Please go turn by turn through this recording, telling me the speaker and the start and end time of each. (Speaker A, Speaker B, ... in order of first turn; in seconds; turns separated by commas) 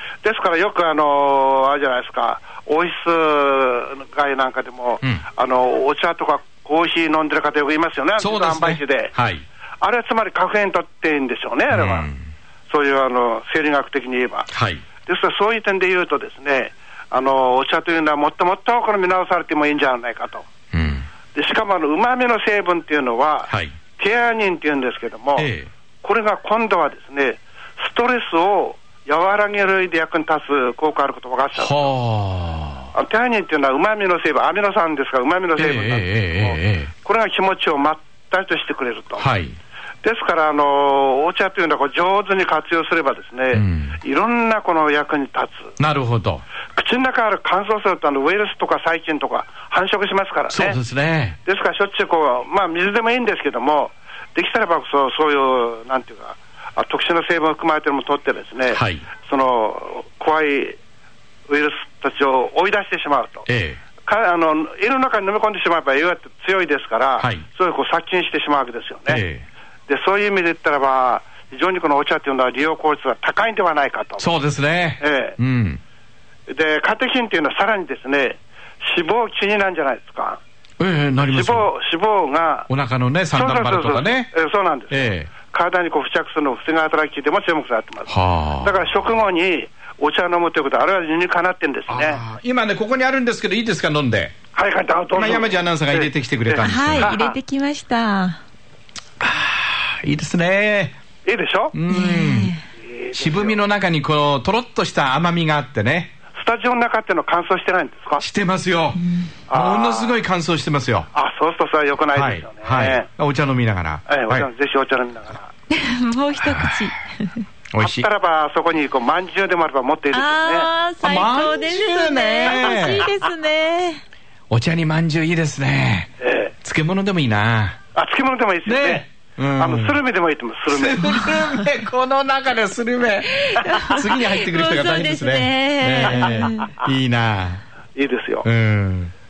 Speaker A: 0.2-9.1, Speaker B: 8.2-9.4, Speaker A: 9.8-12.1, Speaker B: 11.7-12.2, Speaker A: 12.7-14.5, Speaker B: 14.5-14.8, Speaker A: 15.0-20.5, Speaker B: 20.7-21.1, Speaker A: 21.3-25.5, Speaker B: 25.4-25.7, Speaker A: 26.0-31.9, Speaker B: 31.6-32.9, Speaker A: 32.9-39.3, Speaker B: 35.5-36.9, Speaker B: 39.2-39.5, Speaker A: 40.0-45.7, Speaker B: 43.5-44.0, Speaker B: 45.8-46.4, Speaker A: 46.7-50.8, Speaker B: 50.5-51.4, Speaker A: 51.4-60.8, Speaker B: 58.7-59.0, Speaker A: 61.5-63.5, Speaker B: 63.5-63.8, Speaker A: 64.0-69.2, Speaker B: 67.2-67.4, Speaker B: 69.1-69.5, Speaker A: 69.9-74.3, Speaker B: 74.2-75.8, Speaker A: 75.0-75.4, Speaker A: 76.5-80.4, Speaker B: 80.8-81.7, Speaker A: 81.2-82.7, Speaker B: 82.7-84.3, Speaker A: 83.3-92.2, Speaker B: 84.9-85.3, Speaker B: 88.1-89.1, Speaker B: 91.9-94.3, Speaker A: 94.5-97.4, Speaker B: 95.1-97.1, Speaker C: 96.6-98.4, Speaker B: 99.2-101.0, Speaker A: 101.2-101.7, Speaker B: 101.7-102.5, Speaker C: 101.9-102.6, Speaker A: 102.8-103.6, Speaker B: 103.1-106.1, Speaker A: 106.3-108.2, Speaker B: 108.2-111.1, Speaker A: 109.5-110.2, Speaker A: 111.1-113.1, Speaker B: 112.1-114.5, Speaker A: 114.1-115.5, Speaker C: 115.7-117.4, Speaker B: 116.3-116.9, Speaker B: 117.7-118.1, Speaker A: 117.8-120.7, Speaker C: 120.1-124.0, Speaker B: 121.0-123.0, Speaker A: 122.4-122.9, Speaker B: 124.5-127.8, Speaker A: 126.2-126.5, Speaker A: 127.9-131.3, Speaker B: 128.7-130.0, Speaker B: 130.7-137.6, Speaker C: 133.5-136.8, Speaker A: 136.1-136.4, Speaker A: 137.9-138.5, Speaker B: 138.4-139.1